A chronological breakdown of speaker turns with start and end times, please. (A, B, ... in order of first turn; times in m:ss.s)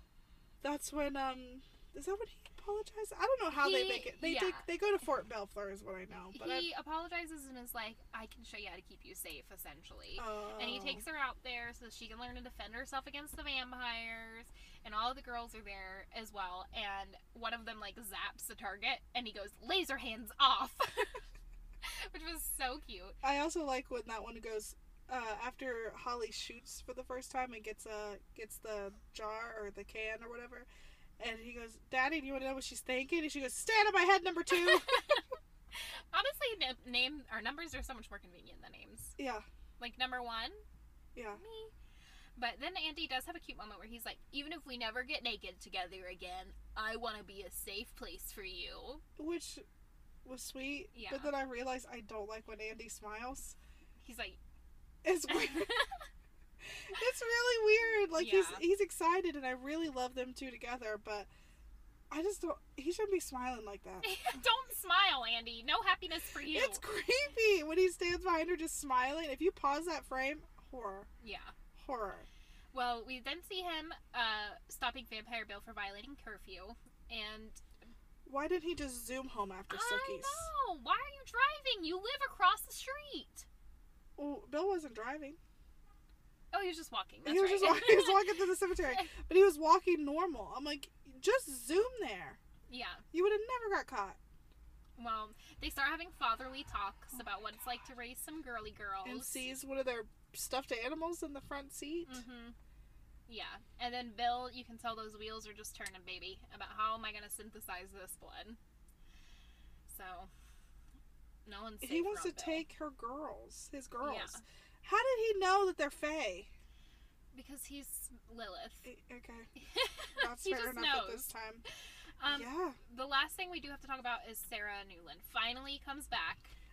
0:00.6-0:06.7 A
0:03.5-0:04.7 B
0:06.3-0:21.2 B
0:10.2-0:11.0 A
0:21.8-0:23.2 B
0:23.2-0:30.7 A
0:31.2-0:35.1 A
0:34.5-0:39.2 B
0:39.2-0:39.4 A
0:39.8-0:40.6 B
0:41.1-0:41.4 A
0:41.4-0:41.7 B
0:42.4-0:49.0 B
0:49.2-0:49.6 A
0:50.2-0:53.6 A
0:50.9-0:51.3 B
0:54.0-0:54.4 B
0:55.0-0:55.8 A
0:55.3-0:55.9 B
0:56.9-1:01.3 A
0:58.1-0:58.6 B
1:02.1-1:04.1 A
1:04.0-1:06.8 B
1:06.5-1:11.1 A
1:11.2-1:11.5 B
1:11.8-1:12.3 A
1:12.7-1:17.6 B
1:18.2-1:20.5 A
1:19.7-1:23.4 B
1:24.2-1:25.4 A
1:26.5-1:29.1 B
1:27.2-1:32.4 A
1:32.7-1:33.0 B
1:33.1-1:34.2 A
1:35.0-1:39.5 B
1:39.0-1:42.2 A
1:42.0-1:42.5 B
1:43.3-1:48.6 B
1:49.9-1:50.3 B
1:51.4-1:52.6 B
1:51.8-1:56.5 A
1:54.0-1:54.4 B
1:57.3-1:58.9 B
1:58.8-1:59.5 A
1:59.6-2:01.3 B
2:00.2-2:01.6 A
2:02.2-2:06.5 B
2:02.3-2:02.8 A